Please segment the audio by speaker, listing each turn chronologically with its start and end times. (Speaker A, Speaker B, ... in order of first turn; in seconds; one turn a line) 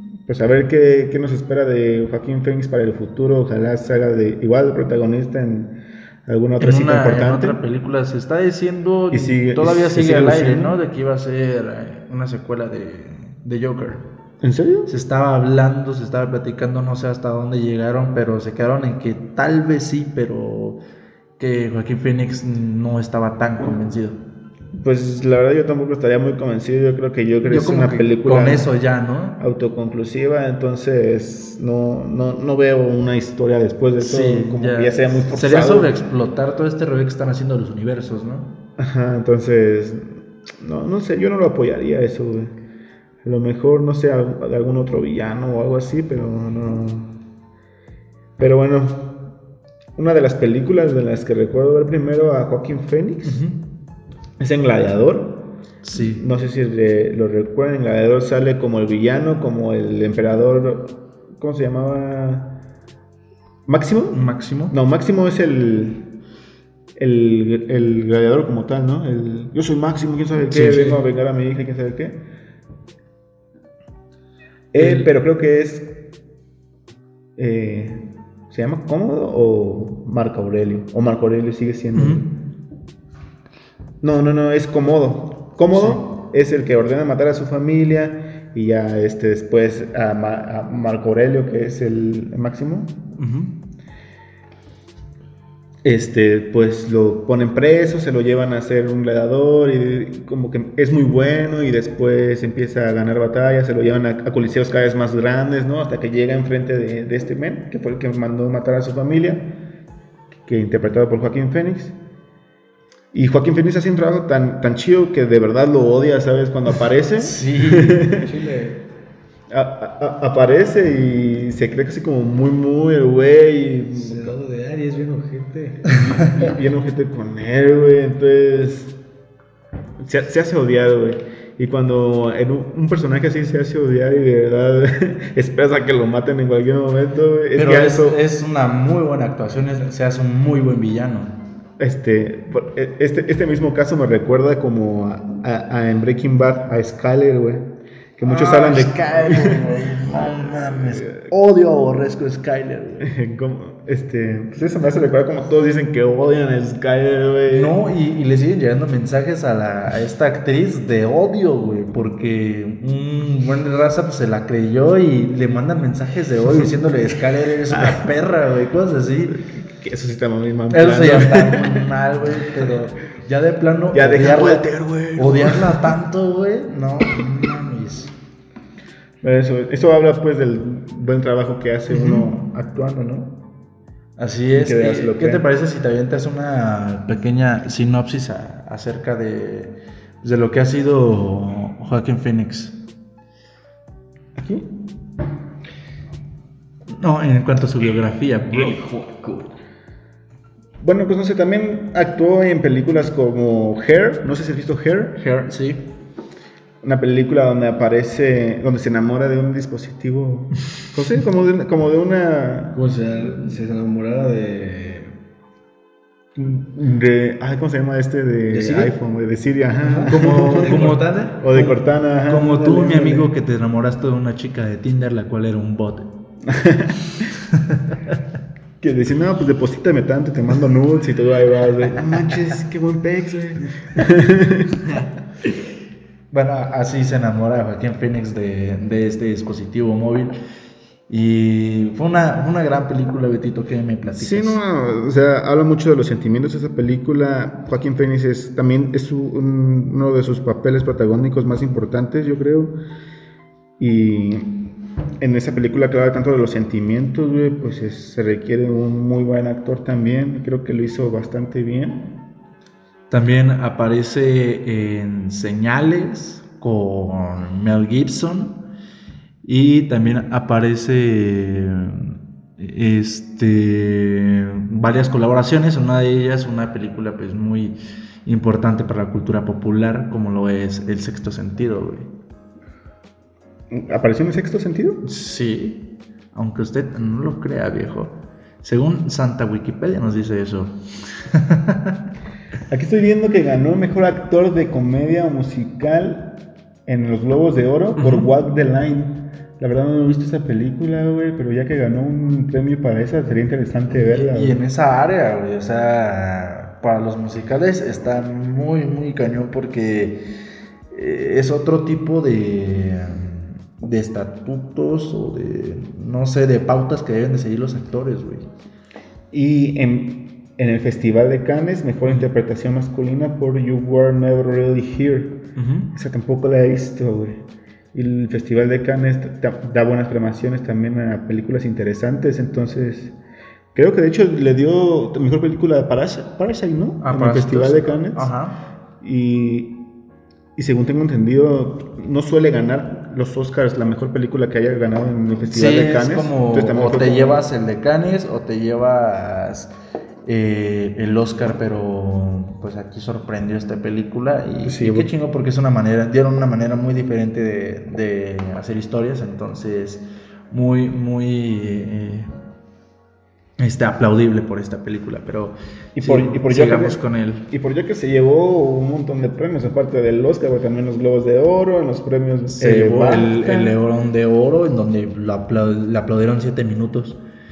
Speaker A: 0.3-5.7
Speaker A: 6.2-7.6
Speaker B: 6.6-14.0
Speaker A: 9.1-10.8
Speaker A: 14.4-14.9
Speaker B: 14.9-20.8
Speaker B: 21.4-24.2
Speaker A: 24.7-28.7
Speaker B: 27.4-29.4
Speaker A: 29.4-35.9
Speaker B: 34.0-38.5
Speaker A: 38.8-42.5
Speaker A: 43.2-47.1
Speaker A: 48.4-49.1
Speaker A: 50.0-53.4
Speaker B: 53.2-53.6
Speaker A: 54.4-55.4
Speaker B: 55.8-56.2
Speaker A: 55.9-62.5
Speaker A: 63.6-64.2
Speaker B: 64.1-64.7
Speaker A: 64.7-66.1
Speaker A: 67.0-72.2
Speaker B: 70.4-71.0
Speaker A: 74.7-75.9
Speaker B: 74.8-75.1
Speaker A: 77.4-82.2
Speaker B: 81.9-82.2
Speaker A: 84.0-93.0
Speaker B: 85.7-86.0
Speaker B: 93.2-93.5
Speaker A: 95.8-109.5
Speaker A: 110.5-112.0
Speaker A: 113.1-118.3
Speaker B: 117.2-118.1
Speaker C: 118.1-118.8
Speaker A: 119.5-124.3
Speaker C: 123.9-126.6
Speaker A: 125.9-128.9
Speaker A: 130.0-138.2
Speaker B: 137.5-141.3
Speaker A: 141.8-147.7
Speaker A: 148.2-151.0
Speaker B: 148.2-153.1
Speaker A: 153.0-157.8
Speaker B: 157.5-169.4
Speaker A: 167.7-168.1
Speaker A: 169.5-171.8
Speaker B: 170.7-178.1
Speaker A: 173.9-175.9
Speaker A: 179.2-183.3
Speaker B: 181.9-182.3
Speaker B: 184.2-192.8
Speaker A: 184.5-185.4
Speaker A: 194.4-194.7
Speaker B: 196.9-198.8
Speaker C: 198.5-199.5
Speaker A: 200.8-205.2
Speaker B: 205.2-205.8
Speaker A: 206.8-212.8
Speaker C: 212.7-215.1
Speaker A: 216.3-223.2
Speaker C: 218.5-218.9
Speaker C: 219.8-221.8
Speaker B: 220.0-221.6
Speaker B: 222.3-226.1
Speaker C: 222.7-223.2
Speaker A: 226.5-227.0
Speaker B: 227.3-228.2
Speaker A: 228.8-235.0
Speaker B: 236.3-240.3
Speaker B: 241.1-244.6
Speaker A: 244.1-252.7
Speaker A: 253.8-254.6
Speaker A: 255.2-262.1
Speaker B: 263.1-268.6
Speaker B: 269.4-282.1
Speaker A: 283.7-285.0
Speaker B: 285.0-291.9
Speaker A: 292.7-296.3
Speaker A: 296.9-304.6
Speaker B: 298.0-298.3
Speaker B: 303.9-310.2
Speaker B: 310.9-318.5
Speaker A: 319.3-325.4
Speaker B: 325.6-325.9
Speaker A: 325.9-327.4
Speaker A: 327.9-333.1
Speaker A: 333.7-338.3
Speaker B: 337.0-338.5
Speaker A: 339.0-339.7
Speaker A: 340.6-347.4
Speaker B: 345.5-349.7
Speaker B: 350.2-362.3
Speaker A: 354.6-355.1
Speaker B: 363.6-367.4
Speaker A: 365.9-373.7
Speaker B: 372.6-377.2